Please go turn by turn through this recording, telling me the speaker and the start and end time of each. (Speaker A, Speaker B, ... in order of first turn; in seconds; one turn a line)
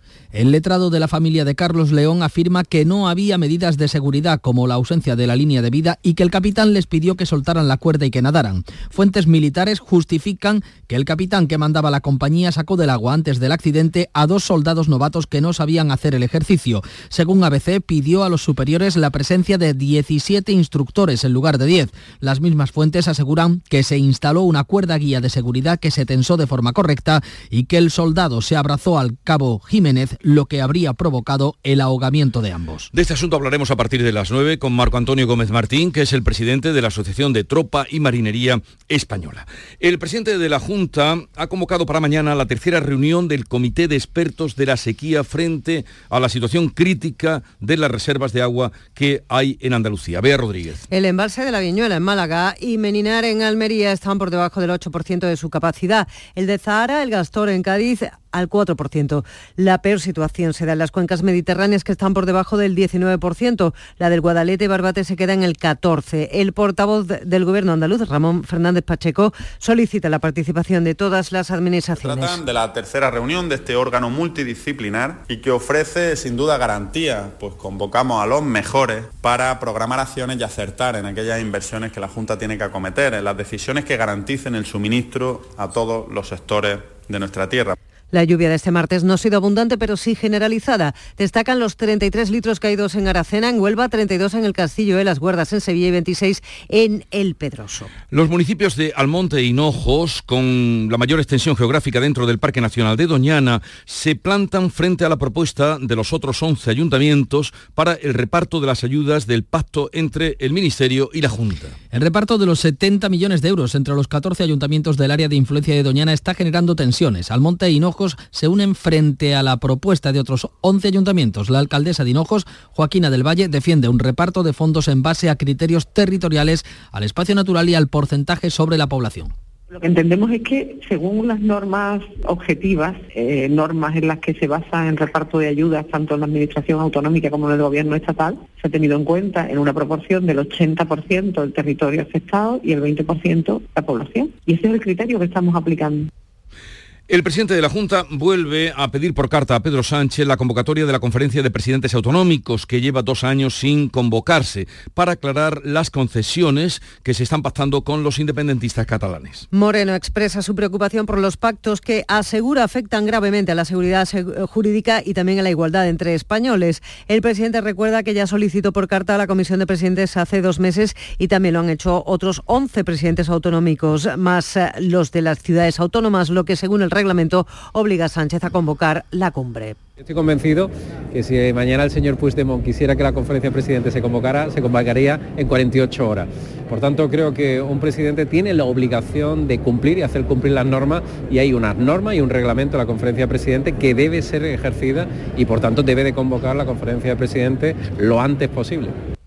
Speaker A: 0.3-32.9
Speaker B: 32.9-50.8
Speaker C: 50.9-72.4
Speaker D: 72.0-87.8
Speaker C: 88.1-97.9
Speaker B: 98.1-111.7
Speaker A: 111.9-129.3
Speaker E: 129.7-146.1
Speaker B: 147.1-159.5
Speaker C: 159.5-179.8
Speaker F: 180.0-198.9